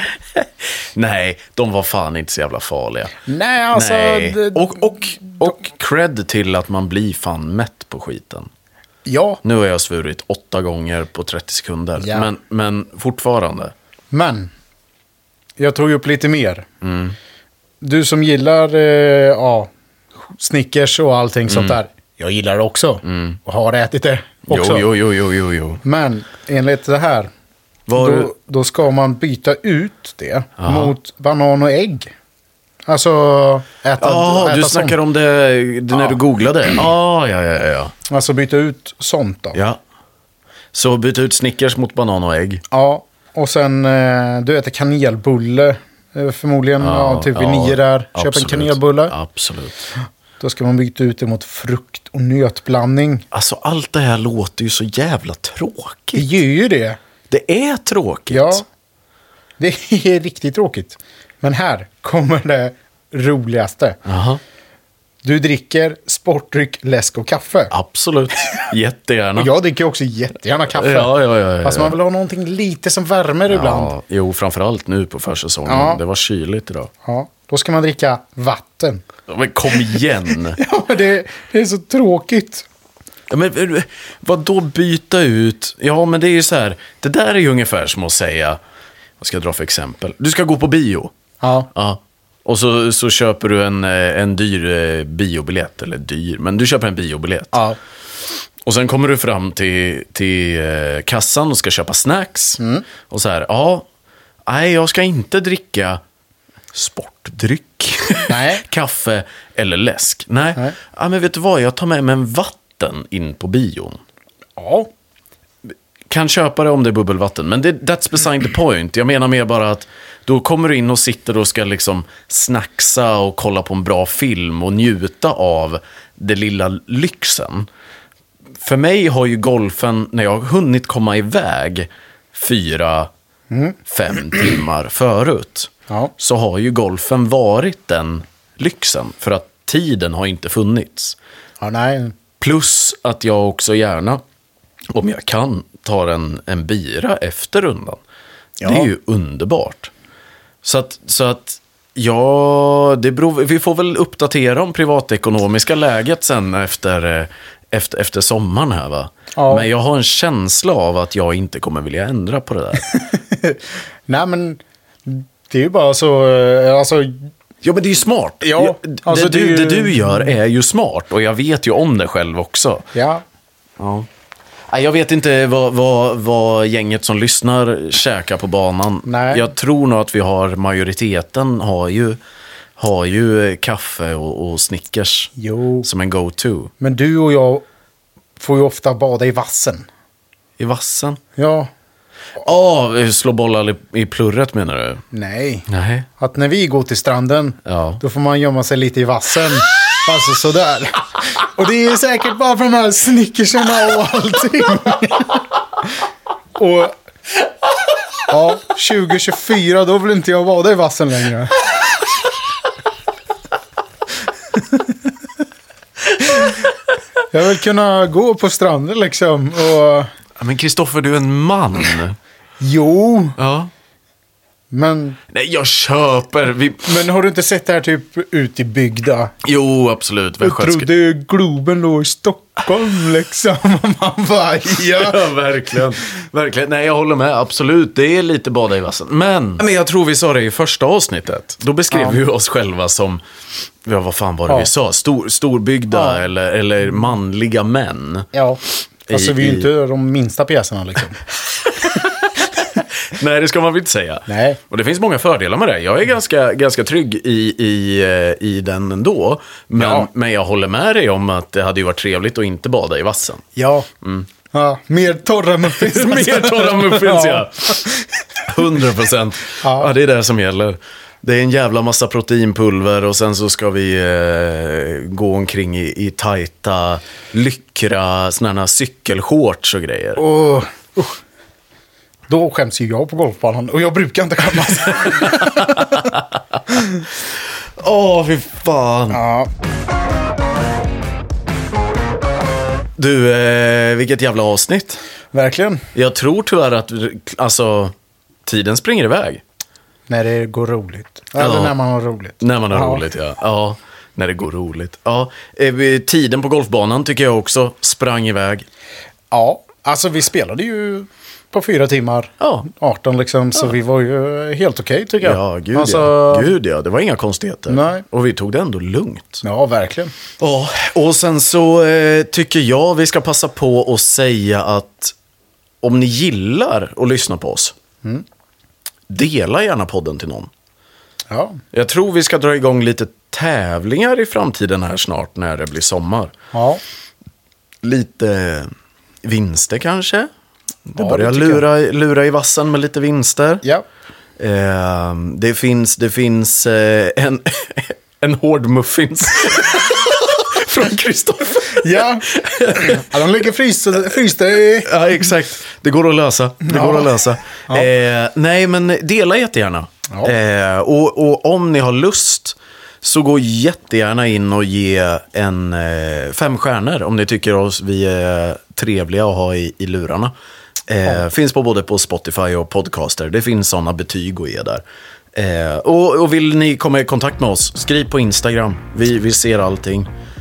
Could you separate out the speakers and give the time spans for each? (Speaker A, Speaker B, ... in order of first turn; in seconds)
Speaker A: 0.4-3.2, 3.7-8.5, 9.4-13.7, 16.8-17.2, 21.5-21.8, 23.1-23.4, 24.5-25.8, 27.9-28.3, 30.6-30.9, 34.0-37.9, 39.5-39.8, 40.7-42.6, 46.8-49.9, 53.3-56.3, 57.3-58.6, 64.0-64.4, 67.7-69.5, 70.7-72.0, 73.5-76.9, 79.3-80.6, 83.3-88.6, 89.2-91.1, 91.7-97.6, 98.7-103.9, 104.5-106.0, 106.7-114.0, 116.1-127.7, 128.6-133.1, 133.9-141.2, 142.4-144.2, 144.9-148.0, 148.6-149.9, 150.6-163.0, 167.6-172.9, 173.8-174.1, 174.7-182.2, 182.8-185.3, 185.8-186.7, 190.6-191.2, 192.4-195.0, 195.7-196.1, 197.7-198.0, 216.3-216.5, 220.4-222.2, 223.4-223.7, 225.3-227.0, 229.4-230.9, 234.8-243.2, 243.8-248.3, 249.1-249.7, 251.6-263.5, 264.0-264.3, 265.7-267.9, 268.4-280.2, 285.2-286.1, 287.8-289.2, 293.0-295.0, 295.9-297.9, 298.5-299.4, 301.4-301.7, 302.4-308.7, 312.4-312.7, 315.2-319.4, 320.4-325.1, 325.8-327.8, 329.1-330.5, 331.7-336.3, 337.8-338.7, 339.2-340.3, 340.9-343.6, 344.4-353.2, 354.8-370.3, 370.9-374.8, 375.4-380.1
Speaker B: 3.2-4.9, 9.1-9.4, 12.0-12.3, 14.1-14.5, 15.6-16.7, 17.8-24.9, 25.8-27.3, 28.0-32.1, 32.9-35.0, 38.1-39.6, 42.7-49.1, 50.4-53.3, 56.1-57.0, 58.3-58.6, 59.6-64.0, 65.2-67.7, 69.4-73.9, 75.7-76.0, 77.0-79.0, 80.6-82.7, 91.4-91.7, 102.6-102.8, 108.3-108.7, 114.6-114.9, 133.5-133.8, 141.6-142.2, 148.6-148.9, 159.4-159.7, 162.9-167.3, 168.4-170.3, 172.9-173.2, 179.1-179.5, 185.4-185.9, 186.8-187.6, 188.4-189.9, 191.4-191.7, 195.1-206.0, 206.6-207.0, 208.3-211.6, 214.6-214.9, 217.3-220.1, 222.6-223.4, 224.7-225.2, 226.9-229.3, 230.4-235.9, 241.9-242.2, 245.9-246.2, 248.3-251.2, 254.3-254.6, 259.8-260.1, 263.6-263.9, 264.5-268.4, 269.6-269.9, 280.2-281.2, 282.3-286.1, 286.7-287.0, 289.1-289.5, 295.3-295.9, 300.1-303.0, 309.3-316.5, 317.7-318.1, 319.4-320.1, 331.3-331.6, 336.5-336.8, 341.0-341.7, 351.7-354.9, 356.6-357.9